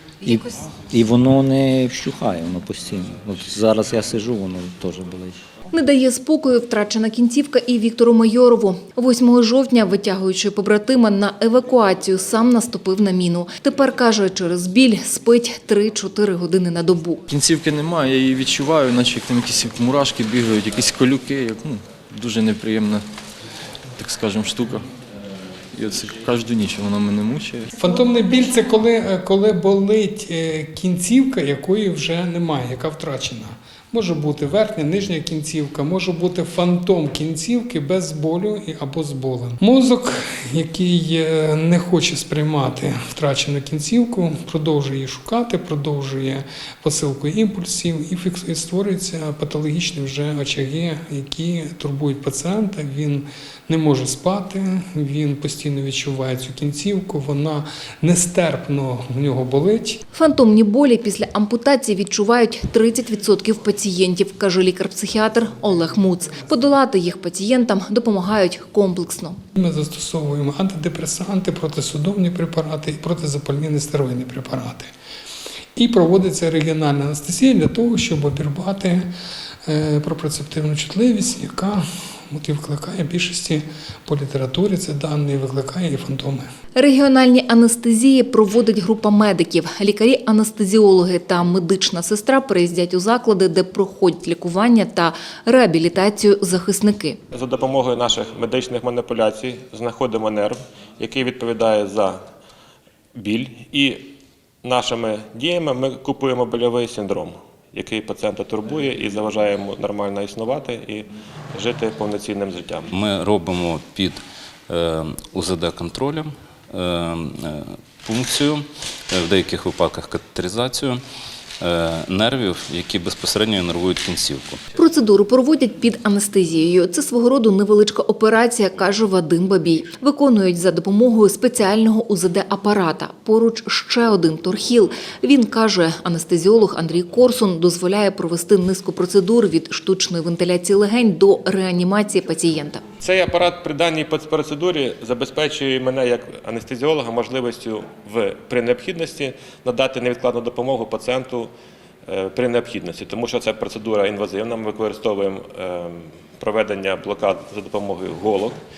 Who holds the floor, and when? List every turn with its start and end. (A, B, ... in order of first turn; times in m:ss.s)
0:00.2-0:05.4 A
0:00.2-0:00.5 B
0:05.7-0:17.2 B
0:17.3-0:23.0 C
0:24.0-0:24.8 C
0:25.7-0:27.7 C
0:27.7-1:00.0 D
1:00.1-1:09.4 B
1:09.5-1:14.9 D
1:15.8-1:19.1 D
1:19.6-1:26.4 D
1:26.8-1:37.2 B
1:37.3-1:42.2 E
1:43.1-1:44.1 E
1:44.6-1:52.9 E
1:52.9-1:54.2 F
1:54.7-2:01.0 F
2:01.6-2:04.6 F
2:04.8-2:22.8 B
2:23.0-2:31.5 E
2:32.1-2:38.6 E